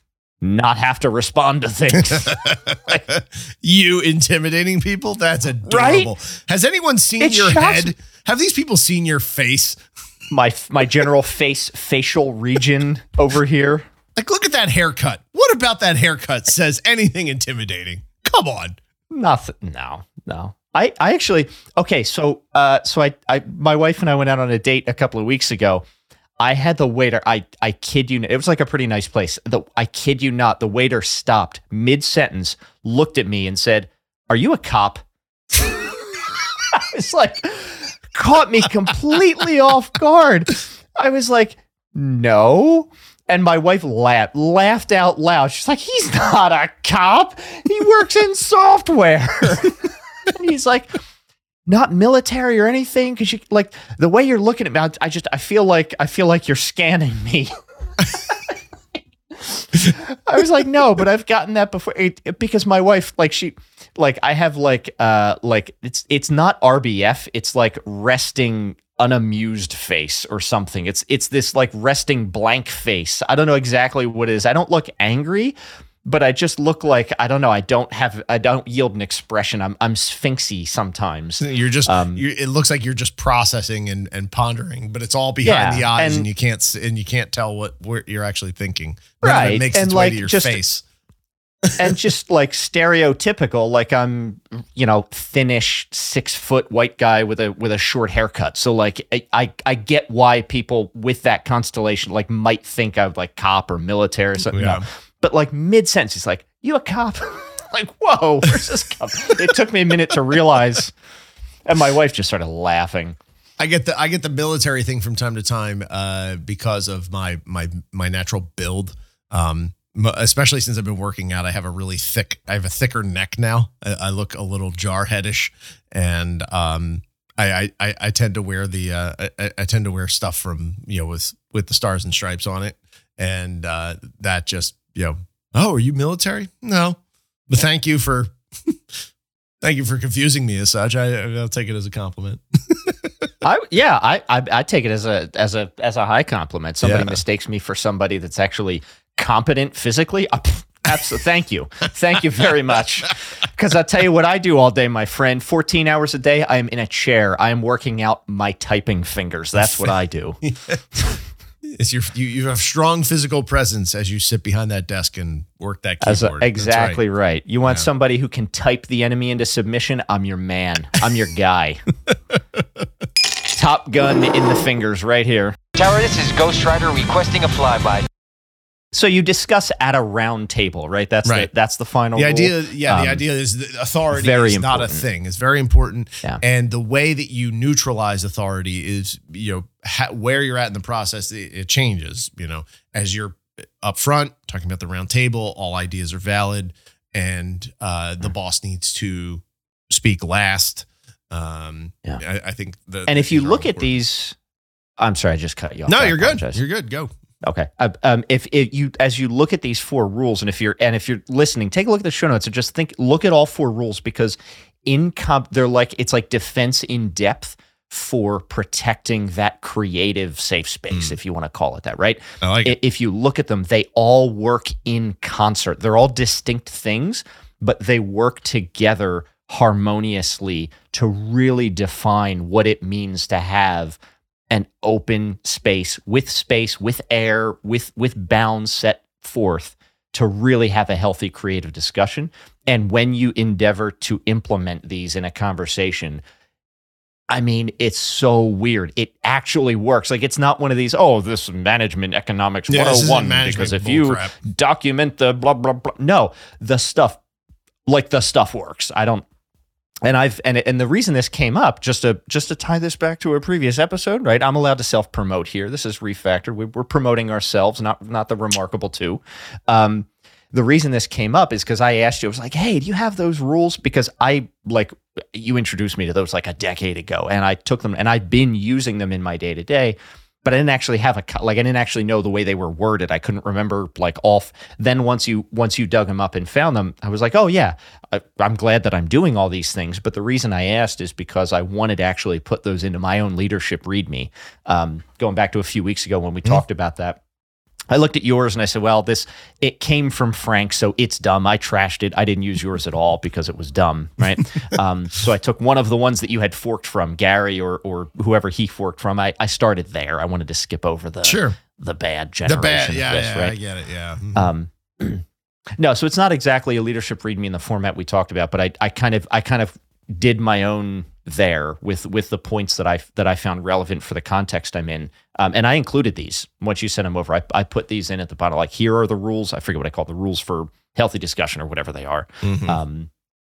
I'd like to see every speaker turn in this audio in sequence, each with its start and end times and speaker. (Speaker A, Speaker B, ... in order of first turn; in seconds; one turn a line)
Speaker A: 0.4-3.0
Speaker B: 2.0-9.8
Speaker A: 5.7-6.1
Speaker A: 7.2-7.9
Speaker A: 10.3-13.8
Speaker B: 14.1-18.8
Speaker A: 19.1-25.8
Speaker A: 26.4-35.0
Speaker A: 35.5-36.0
Speaker A: 36.6-50.9
Speaker A: 51.6-57.5
Speaker A: 58.1-58.5
Speaker A: 59.3-82.2
Speaker B: 81.4-90.8
Speaker A: 85.4-86.3
Speaker A: 89.2-90.6
Speaker A: 91.8-110.9
Speaker B: 104.5-104.8
Speaker A: 111.7-113.2
Speaker B: 113.6-137.0
Speaker B: 137.5-138.9
Speaker B: 139.6-143.3
Speaker A: 143.4-160.4
Speaker B: 146.8-147.2
Speaker B: 159.6-159.9
Speaker B: 160.4-160.8
Speaker B: 161.7-167.0
Speaker A: 166.0-171.8
Speaker A: 173.5-175.6
Speaker C: 175.8-178.0
Speaker A: 178.9-183.2
Speaker B: 182.1-204.0
Speaker A: 184.1-185.1
Speaker A: 203.1-204.3
Speaker A: 205.0-206.6
Speaker B: 205.9-207.1
Speaker A: 207.4-234.0
Speaker B: 220.9-221.2
Speaker B: 222.4-222.8
Speaker A: 234.5-246.2
Speaker A: 247.3-257.2
Speaker B: 252.7-254.3
Speaker A: 257.9-259.2
Speaker A: 260.0-297.2
Speaker A: 297.9-313.6
Speaker B: 311.2-311.6
Speaker B: 312.4-314.5
Speaker A: 314.3-315.2
Speaker A: 315.8-333.1
Speaker B: 332.4-332.8